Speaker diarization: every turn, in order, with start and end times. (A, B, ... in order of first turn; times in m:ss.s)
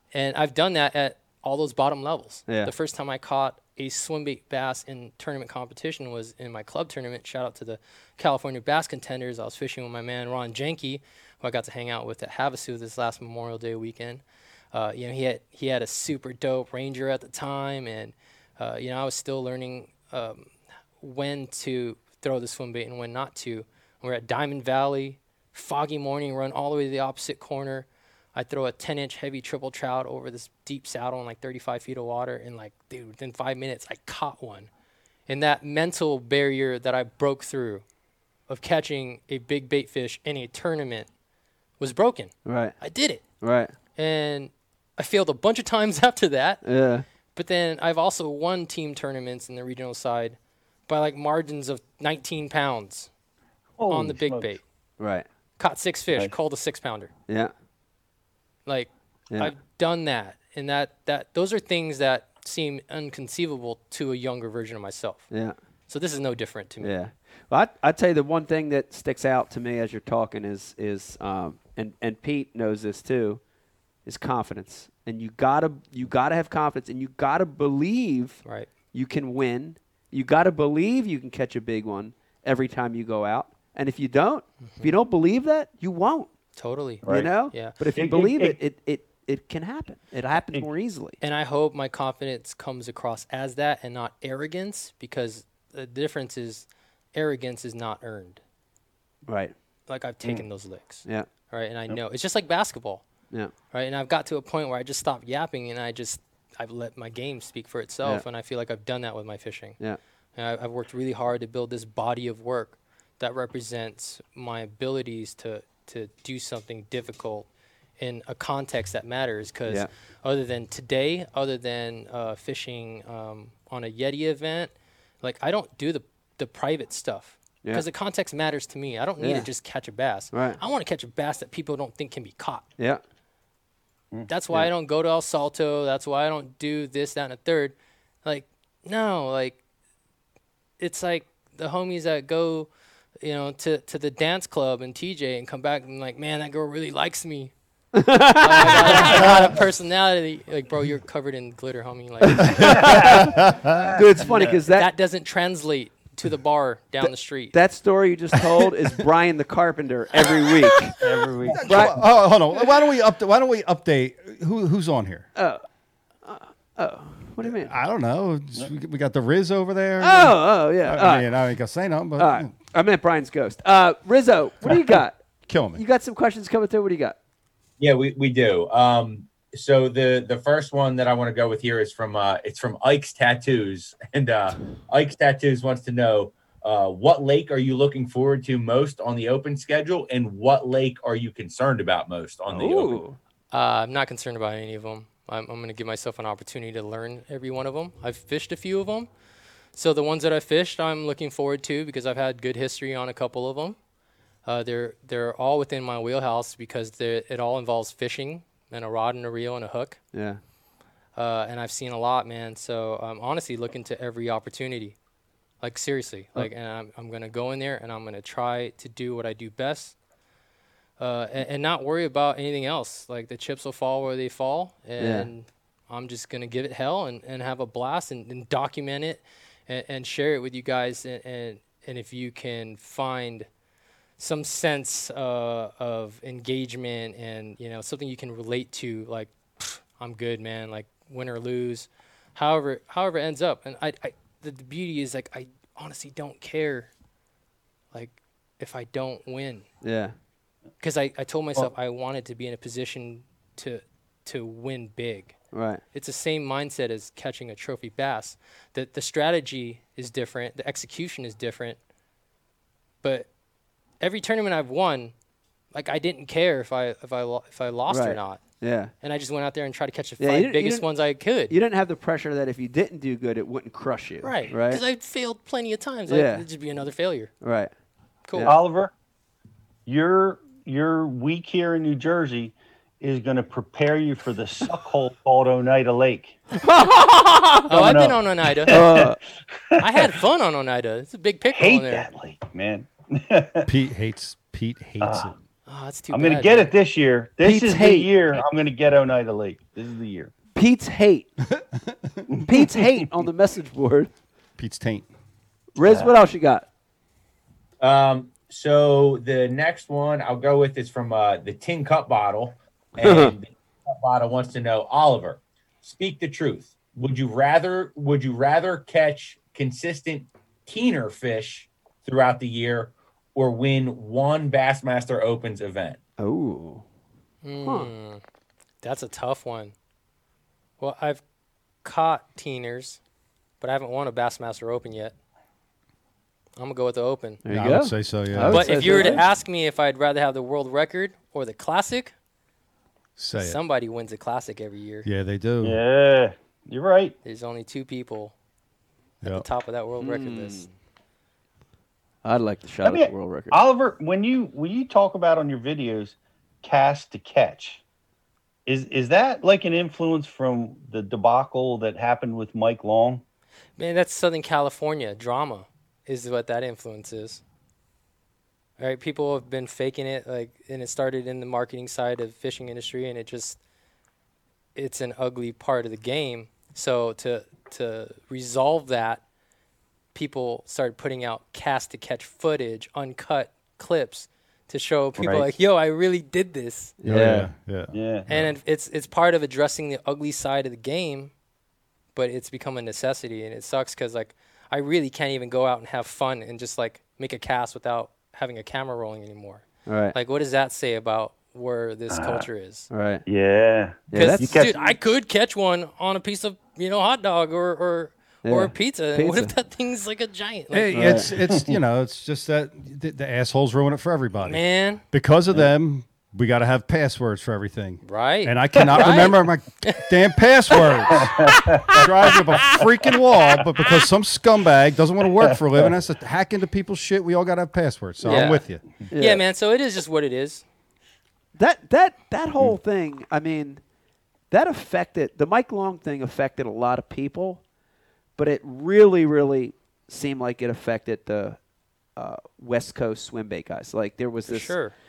0:00.1-0:20.5 A
0:21.0-0:34.7 A
0:35.3-0:37.8 A
0:38.5-0:41.1 A
0:41.8-0:43.2 A
0:42.5-0:42.8 B
0:43.4-0:43.7 B
0:44.0-0:46.6 A
0:46.6-0:47.0 B
0:47.4-0:50.4 A
0:50.9-0:53.1 A
0:53.8-0:54.5 C
0:53.9-0:54.6 A
0:55.0-0:55.3 B
0:55.6-0:57.1 A
0:58.7-1:05.3 A
1:05.3-1:05.6 B
1:05.9-1:07.0 A
1:06.8-1:13.4 B
1:14.1-1:18.4 B
1:18.9-1:26.3 B
1:26.6-1:27.8 A
1:27.0-1:27.3 C
1:27.1-1:31.2 B
1:28.0-1:28.6 C
1:31.2-1:38.4 A
1:39.3-1:39.5 B
1:39.9-1:43.0 A
1:43.7-1:49.8 A
1:50.4-1:57.5 A
1:58.0-2:12.7 A
2:09.2-2:09.5 B
2:10.3-2:10.6 B
2:14.3-2:19.6 A
2:20.8-2:22.7 A
2:23.2-2:27.5 A
2:27.9-2:29.4 B
2:28.4-2:33.0 A
2:32.2-2:33.3 B
2:32.6-2:34.0 D
2:32.8-2:33.2 C
2:34.0-2:34.9 B
2:34.3-2:37.6 A
2:37.5-2:40.9 B
2:41.0-2:41.6 C
2:41.5-2:45.3 D
2:41.7-2:42.0 B
2:46.2-2:47.7 B
2:47.4-2:52.6 D
2:50.0-2:51.3 B
2:52.2-2:55.2 B
2:55.5-2:55.8 D
2:55.8-2:57.2 B
2:57.8-3:13.0 E
3:12.5-3:13.2 B
3:13.5-3:19.1 A
3:19.8-3:23.8 A
3:24.5-3:30.0 A
3:30.1-3:30.4 B
3:31.2-3:35.0 A
3:35.6-3:40.0 A
3:41.0-3:53.5 A
3:45.0-3:45.3 B
3:54.2-4:06.9 A
4:07.9-4:09.6 A
4:09.8-4:10.2 B
4:10.8-4:15.4 A
4:15.5-4:15.8 B
4:15.9-4:21.8 A
4:23.0-4:23.3 A
4:24.0-4:25.1 A
4:25.7-4:28.4 A
4:27.9-4:28.9 B
4:29.0-4:31.6 A
4:30.2-4:30.9 B
4:31.5-4:34.8 B
4:34.2-4:37.3 A
4:36.1-4:36.4 B
4:37.4-4:37.7 B
4:38.4-4:38.9 C
4:39.9-4:46.4 C
4:46.6-4:47.7 B
4:47.7-4:48.8 A
4:47.7-4:49.0 C
4:48.7-4:49.2 B
4:49.7-4:50.1 C
4:49.8-4:52.1 A
4:51.5-4:53.7 C
4:53.7-4:55.4 D
4:55.0-4:55.3 C
4:55.7-4:56.7 A
4:56.1-5:00.3 C
4:57.4-4:58.1 B
5:00.6-5:01.3 B
5:01.5-5:02.2 D
5:02.3-5:03.0 C
5:02.5-5:04.1 B
5:04.6-5:05.1 D
5:05.8-5:06.7 B
5:05.8-5:06.1 C
5:07.8-5:26.0 E
5:13.0-5:13.3 B
5:26.2-5:26.8 B
5:27.4-5:28.2 A
5:27.6-5:27.9 B
5:28.8-5:29.7 A
5:30.8-5:31.2 A
5:31.8-5:33.0 A
5:33.6-5:35.2 A
5:36.6-5:37.4 A
5:37.4-5:39.3 B
5:37.5-5:39.2 D
5:38.5-5:42.1 A
5:43.2-5:43.6 D
5:43.4-5:45.1 A
5:45.0-5:45.8 D
5:45.6-5:47.2 C
5:47.2-5:48.3 A
5:49.2-5:50.7 A
5:50.0-5:50.7 B
5:52.2-5:53.6 B
5:52.8-5:57.8 C
5:58.7-6:03.2 C
6:03.8-6:07.4 A
6:08.8-6:13.6 A
6:14.8-6:19.2 A
6:20.1-6:27.0 A
6:25.2-6:25.5 C
6:27.0-6:27.5 B
6:27.0-6:28.5 D
6:27.9-6:28.3 C
6:28.3-6:31.3 A
6:32.2-6:42.9 A
6:39.9-6:40.2 B
6:42.1-6:42.5 C
6:42.9-6:43.2 B
6:43.3-6:44.9 C
6:44.1-6:44.6 B
6:44.1-6:51.3 A
6:48.4-6:49.5 B
6:50.7-7:08.8 D
6:50.9-6:51.3 B
6:54.4-6:55.0 A
6:58.0-7:00.1 A
6:58.8-6:59.1 C
7:01.1-7:02.1 C
7:05.4-7:05.9 C
7:08.2-7:08.6 A
7:09.1-7:09.4 B
7:09.2-7:10.6 A
7:11.6-7:13.8 B
7:14.5-7:17.6 B
7:18.4-7:21.6 B
7:22.2-7:24.7 B
7:24.5-7:25.0 A